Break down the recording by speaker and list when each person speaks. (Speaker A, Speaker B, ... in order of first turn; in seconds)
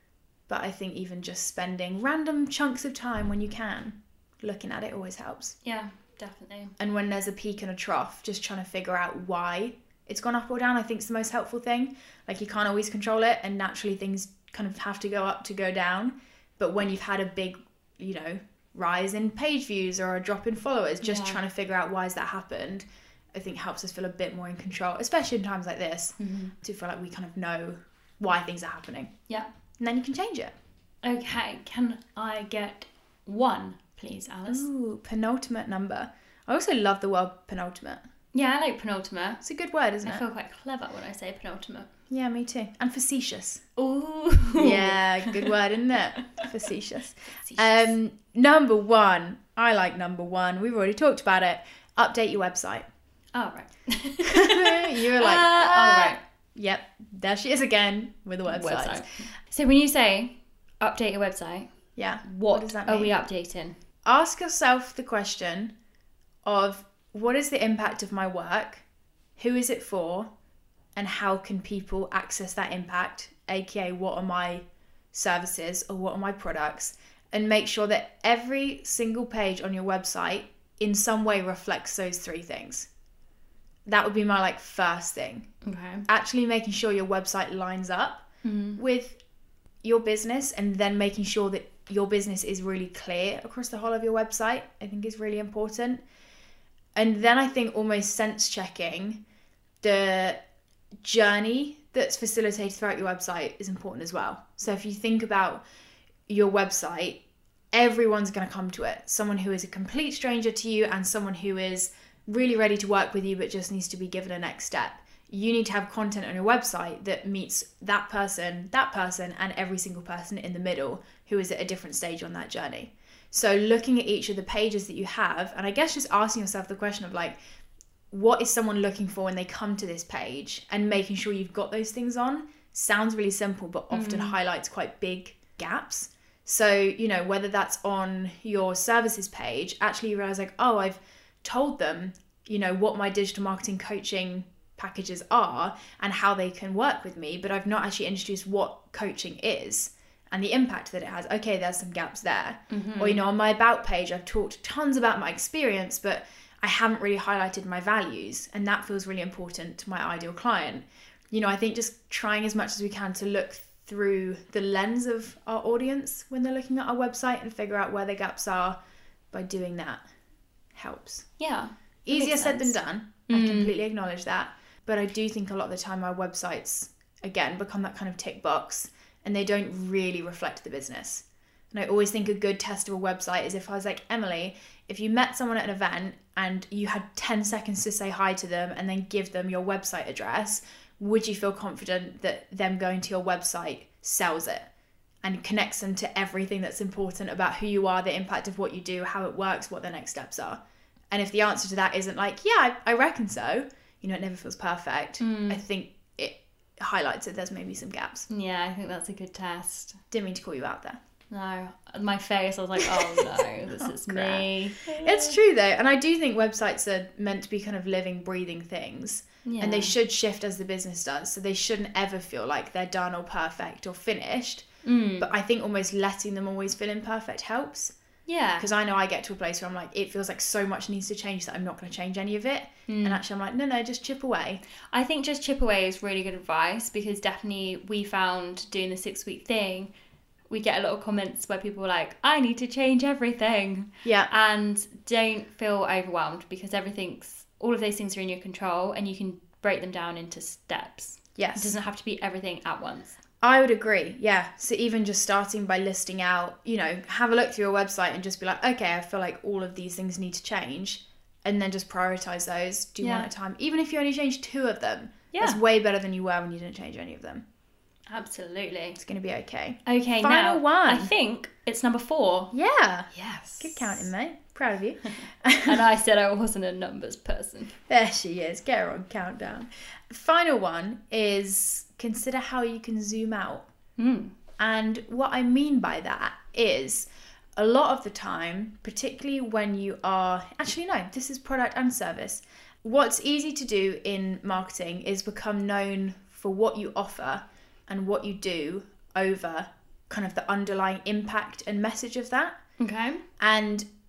Speaker A: 0.5-5.5, 6.8-29.1, 29.8-30.5, 34.5-38.0, 39.4-40.2, 42.1-43.6, 44.6-52.8, 54.3-59.2, 62.0-63.1, 64.0-65.7, 66.4-68.8, 69.4-70.3, 70.9-82.9, 83.9-85.5, 86.0-88.2, 88.8-89.2, 89.8-96.0, 97.0-99.2, 99.8-100.4, 101.0-105.6, 106.3-107.2, 107.7-127.4, 128.1-168.8, 169.3-170.0, 170.7-171.3, 172.0-194.7, 195.2-200.6, 201.1-208.3, 210.1-211.0, 212.8-224.7, 225.2-227.9, 228.6-234.6, 244.0-244.3, 251.3-251.7, 253.4-267.4, 268.9-271.1, 272.5-275.8, 277.9-283.7, 284.6-302.6, 303.4-303.9
Speaker B: 5.6-6.7, 21.0-21.4, 26.2-26.5, 31.0-34.7, 38.3-39.4, 40.0-41.9, 43.8-45.5, 47.3-47.9, 53.3-56.2, 58.5-61.7, 62.2-63.8, 85.6-86.0, 88.4-88.8, 133.9-134.4, 152.7-153.2, 171.4-172.8, 173.3-173.7, 205.2-205.6, 208.3-210.0, 211.3-215.4, 219.4-219.9, 224.8-225.3, 228.3-228.7, 232.9-233.2, 234.9-239.9, 240.5-253.2, 263.0-263.3, 265.3-265.6, 268.1-269.0, 269.9-272.5, 273.1-274.1, 275.6-277.8, 284.0-284.3, 302.8-303.2